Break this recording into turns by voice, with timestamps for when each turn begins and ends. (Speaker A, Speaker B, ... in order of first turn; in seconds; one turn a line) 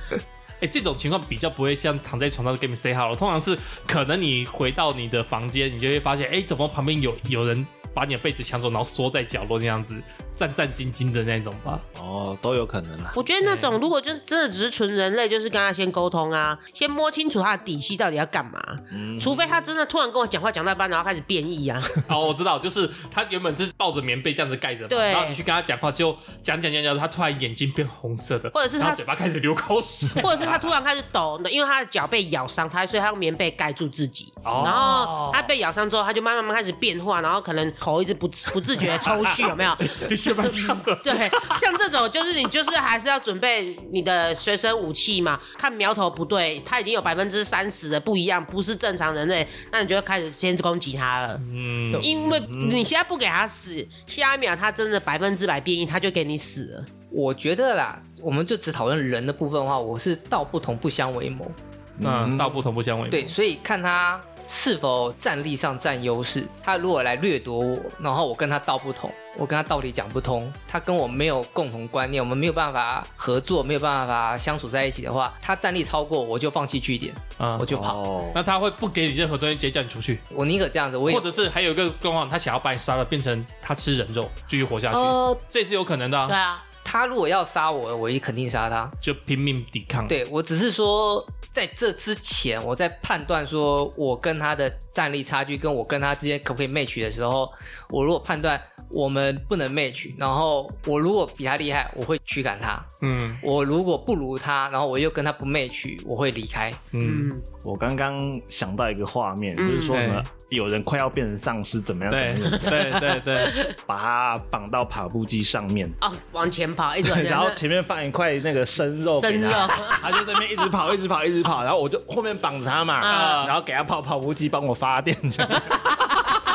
Speaker A: 0.6-11.8
Speaker B: 11.9-13.2
Speaker C: 13.1-22.0
Speaker A: 13.4-13.8
Speaker B: 18.9-19.4
Speaker A: 22.0-30.8
Speaker C: 24.9-25.4
Speaker C: 28.5-29.0
Speaker C: 30.2-51.4
Speaker A: 34.4-35.5
Speaker A: 38.8-41.6
Speaker A: 51.4-52.4
Speaker C: 52.0-56.9
Speaker B: 52.5-52.9
Speaker D: 57.1-61.6
Speaker B: 62.0-62.5
Speaker A: 62.0-63.3
Speaker D: 63.1-78.0
Speaker A: 77.4-77.8
Speaker B: 77.7-78.4
Speaker A: 78.3-80.2
Speaker D: 80.3-81.3
Speaker A: 81.0-86.4
Speaker D: 84.9-85.4
Speaker C: 86.3-86.6
Speaker D: 86.8-88.9
Speaker A: 89.0-90.2
Speaker D: 90.1-102.9
Speaker A: 103.0-103.4
Speaker D: 103.4-106.8
Speaker A: 106.9-107.3
Speaker C: 107.0-107.4
Speaker B: 107.6-113.0
Speaker C: 109.6-109.9
Speaker A: 109.9-110.3
Speaker A: 112.1-113.6
Speaker C: 112.7-113.7
Speaker B: 113.9-116.0
Speaker C: 116.0-117.6
Speaker B: 117.0-125.7
Speaker C: 119.2-120.1
Speaker C: 123.0-123.5
Speaker A: 123.1-123.5
Speaker C: 125.5-126.4